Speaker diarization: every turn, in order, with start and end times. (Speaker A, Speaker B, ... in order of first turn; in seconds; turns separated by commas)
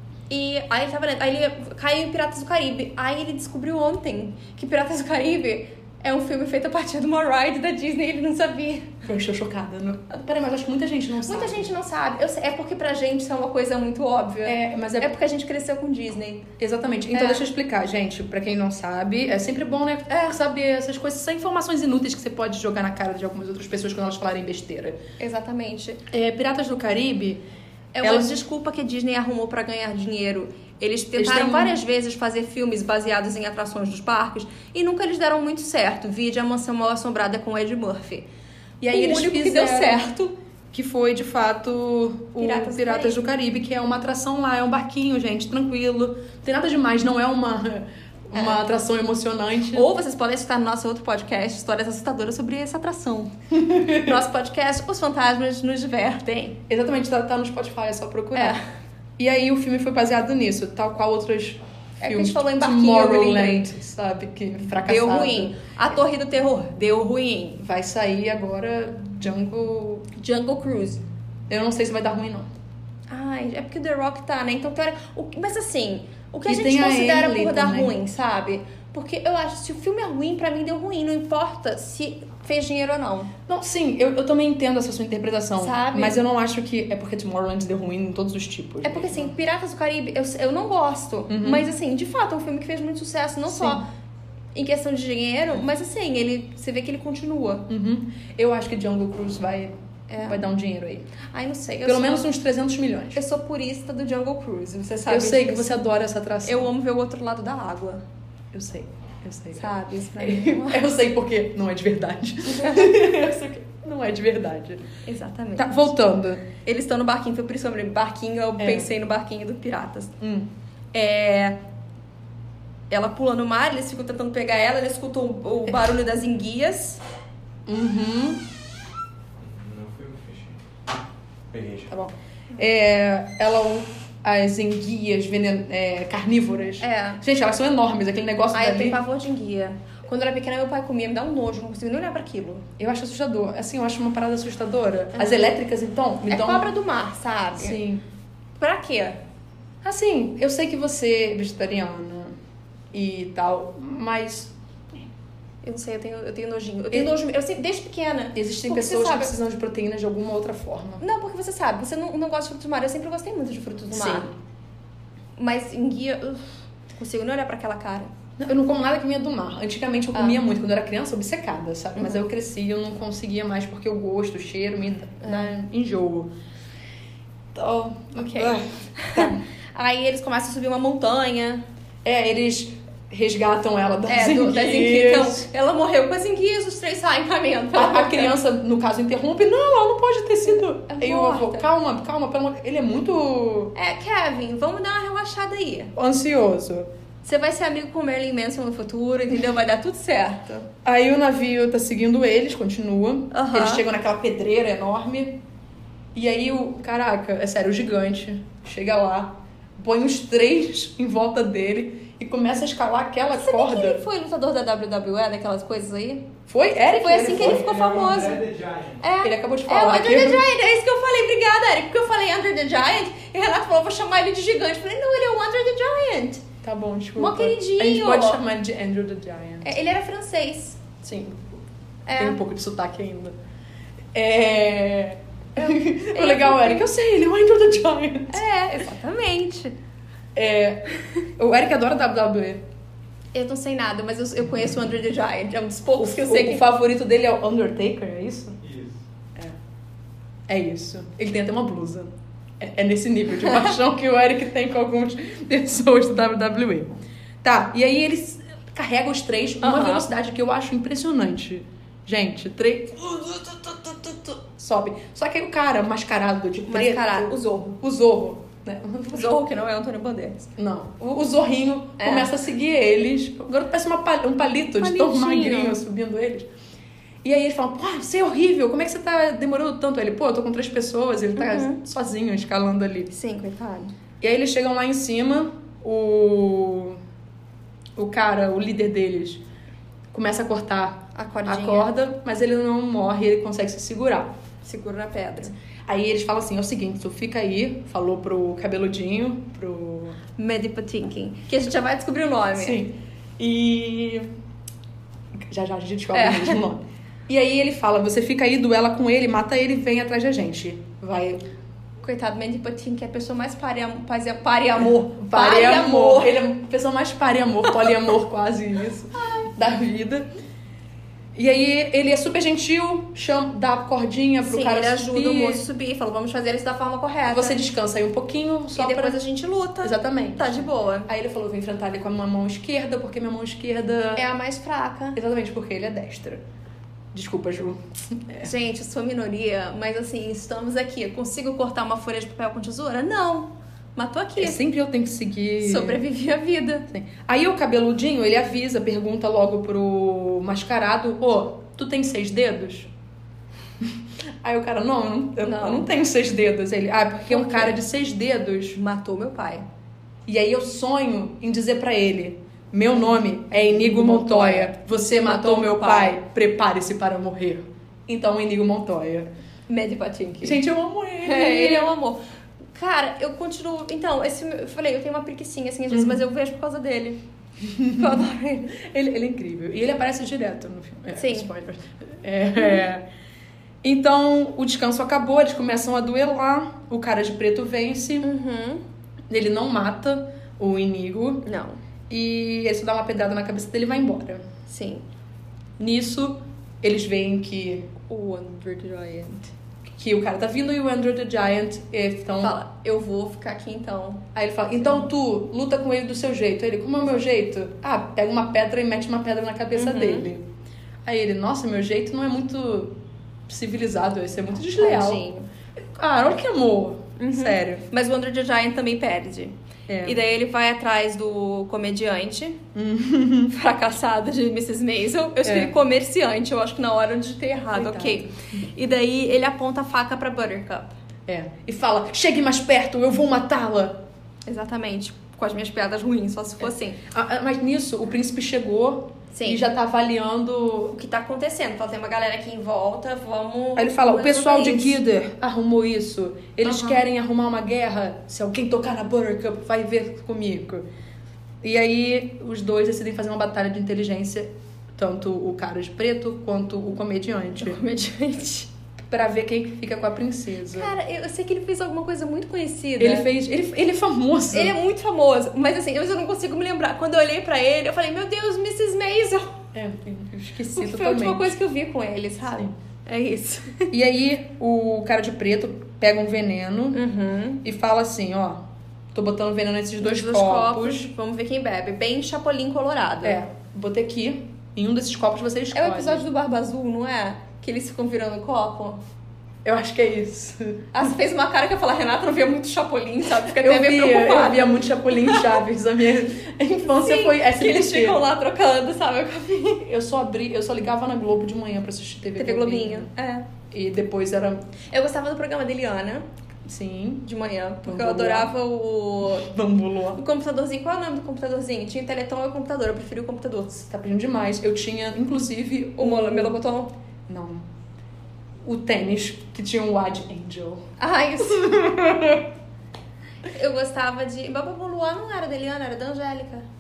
Speaker A: 0.3-8.9, Speaker B: 9.0-11.7, Speaker A: 11.2-16.5, Speaker B: 14.4-15.1, Speaker B: 16.6-25.0, Speaker A: 17.1-17.5, Speaker A: 25.2-26.0, Speaker B: 26.1-27.4, Speaker A: 27.9-38.3, Speaker B: 28.0-28.3, Speaker B: 31.1-31.8, Speaker B: 38.8-40.1, Speaker A: 38.9-40.3, Speaker B: 40.7-49.9, Speaker A: 42.4-43.3, Speaker A: 48.3-48.6, Speaker A: 49.7-53.3, Speaker B: 53.5-54.1, Speaker A: 54.0-56.6, Speaker B: 56.7-58.6, Speaker A: 58.3-58.6, Speaker B: 59.2-65.5, Speaker A: 62.0-63.7, Speaker A: 64.8-67.6, Speaker B: 67.6-70.1, Speaker A: 70.1-71.0, Speaker B: 71.5-72.5, Speaker A: 73.1-83.3, Speaker B: 76.5-78.0, Speaker B: 83.5-89.3, Speaker A: 85.6-86.2, Speaker A: 88.8-93.8, Speaker B: 91.3-91.7, Speaker B: 93.5-93.8, Speaker A: 94.5-97.7, Speaker B: 97.7-101.2, Speaker A: 100.1-100.4, Speaker A: 101.2-102.3, Speaker B: 101.8-103.2, Speaker A: 103.1-105.8, Speaker B: 105.0-106.7, Speaker A: 106.4-108.0, Speaker B: 108.5-114.8, Speaker A: 109.5-110.9, Speaker A: 112.6-113.0, Speaker A: 115.0-115.8, Speaker B: 115.5-116.5, Speaker A: 116.6-120.1, Speaker B: 118.6-118.9, Speaker B: 120.2-120.5, Speaker A: 120.9-121.6, Speaker A: 122.9-127.0, Speaker B: 127.7-128.4, Speaker C: 129.4-130.9, Speaker C: 131.5-131.9, Speaker B: 131.9-139.0, Speaker A: 136.8-137.2, Speaker A: 138.5-142.7, Speaker B: 142.8-146.7, Speaker A: 145.1-145.5, Speaker A: 146.3-147.8, Speaker B: 147.6-148.0, Speaker A: 148.6-149.2, Speaker B: 149.8-152.3, Speaker B: 152.9-154.5, Speaker A: 155.6-159.3, Speaker B: 158.3-161.0, Speaker A: 161.0-164.3, Speaker B: 163.9-164.3, Speaker A: 165.4-168.1, Speaker B: 168.4-176.3, Speaker A: 171.9-172.2, Speaker B: 177.5-179.4, Speaker A: 178.2-181.6, Speaker B: 182.0-185.5, Speaker A: 184.1-188.3, Speaker B: 187.7-193.7, Speaker A: 190.5-191.7, Speaker A: 193.7-195.9, Speaker B: 195.9-196.9, Speaker A: 197.2-200.7, Speaker B: 200.8-205.4, Speaker A: 203.3-203.8, Speaker B: 206.1-214.0, Speaker A: 213.3-216.3, Speaker B: 216.5-217.8, Speaker A: 216.9-218.5, Speaker C: 217.3-219.0, Speaker A: 219.0-226.4, Speaker B: 219.2-220.4, Speaker B: 226.6-229.7, Speaker A: 227.2-228.4, Speaker A: 229.6-230.8, Speaker B: 231.0-231.5, Speaker A: 232.1-232.4, Speaker B: 232.1-233.3, Speaker B: 234.1-238.4, Speaker A: 235.6-236.9, Speaker A: 238.3-239.8, Speaker B: 240.3-242.6, Speaker A: 243.3-246.6, Speaker B: 246.0-248.6, Speaker C: 248.6-249.0, Speaker B: 250.5-269.3, Speaker A: 259.6-260.1, Speaker A: 266.7-267.8, Speaker A: 269.1-270.5, Speaker B: 270.6-276.5, Speaker A: 272.0-272.3, Speaker A: 274.8-275.8, Speaker B: 277.2-283.1, Speaker A: 281.3-281.8, Speaker A: 283.1-283.9, Speaker B: 284.2-287.0, Speaker B: 288.0-289.4, Speaker B: 290.1-294.3, Speaker A: 291.1-291.9, Speaker A: 294.6-295.5, Speaker B: 295.9-300.2, Speaker A: 300.4-302.8, Speaker B: 302.5-304.3, Speaker B: 305.5-311.4, Speaker A: 306.1-306.6, Speaker A: 312.0-316.3, Speaker B: 315.1-320.3, Speaker A: 317.7-317.9, Speaker B: 321.3-325.6, Speaker A: 324.4-327.6, Speaker B: 327.3-329.2, Speaker A: 328.7-331.1, Speaker B: 329.8-334.2, Speaker A: 334.1-335.2, Speaker B: 335.1-336.4, Speaker B: 337.1-338.5, Speaker A: 338.4-344.6, Speaker B: 344.4-346.0, Speaker A: 345.6-346.9, Speaker B: 346.9-352.9, Speaker B: 354.4-358.8, Speaker A: 355.4-355.9, Speaker A: 357.2-357.8, Speaker A: 358.7-359.6, Speaker B: 360.3-369.3, Speaker A: 363.5-366.2, Speaker A: 369.7-370.6, Speaker B: 370.4-371.9, Speaker A: 371.2-372.2, Speaker A: 372.7-377.2, Speaker B: 375.9-376.2, Speaker B: 377.6-383.0, Speaker A: 377.9-378.8, Speaker A: 381.1-381.5, Speaker B: 383.8-388.3, Speaker A: 388.2-388.8, Speaker B: 389.3-391.4, Speaker A: 391.4-391.8, Speaker B: 392.1-394.5, Speaker A: 394.7-395.0, Speaker B: 395.8-397.9, Speaker A: 398.1-399.5, Speaker B: 399.9-402.6, Speaker A: 402.4-404.2, Speaker B: 404.3-410.5, Speaker A: 404.8-405.1, Speaker A: 409.7-410.3, Speaker B: 411.0-412.9, Speaker B: 413.5-415.2, Speaker A: 414.7-415.5, Speaker B: 415.8-417.8, Speaker A: 417.2-422.6, Speaker B: 419.9-420.2, Speaker B: 422.7-423.5, Speaker A: 423.5-430.9, Speaker B: 425.4-425.7, Speaker B: 427.7-428.6, Speaker B: 431.3-434.0, Speaker A: 434.5-437.0, Speaker B: 437.1-440.9, Speaker A: 439.3-439.6, Speaker A: 440.9-445.0, Speaker B: 443.8-450.9, Speaker A: 446.6-447.0, Speaker B: 451.6-457.8, Speaker A: 457.6-458.7, Speaker B: 459.1-460.9, Speaker A: 460.7-463.3, Speaker B: 463.0-464.7, Speaker A: 464.5-469.6, Speaker B: 469.7-471.6, Speaker A: 470.7-473.9, Speaker B: 473.9-477.0, Speaker A: 476.9-477.6, Speaker B: 477.6-478.6, Speaker B: 479.1-481.1, Speaker A: 480.0-483.4, Speaker B: 483.2-486.2, Speaker A: 485.7-489.0, Speaker B: 489.6-491.0, Speaker A: 490.9-495.6, Speaker B: 493.5-498.2, Speaker A: 497.0-499.8, Speaker B: 499.8-503.1, Speaker A: 502.4-503.5, Speaker B: 503.7-504.6, Speaker A: 504.9-506.2, Speaker B: 506.6-507.2, Speaker A: 507.2-509.5, Speaker B: 507.8-508.5, Speaker B: 509.2-510.2, Speaker A: 510.1-513.8, Speaker B: 513.7-516.6, Speaker A: 516.0-516.9, Speaker B: 517.3-517.7, Speaker B: 518.6-520.8, Speaker A: 521.0-521.7, Speaker B: 521.4-522.4, Speaker A: 523.4-526.6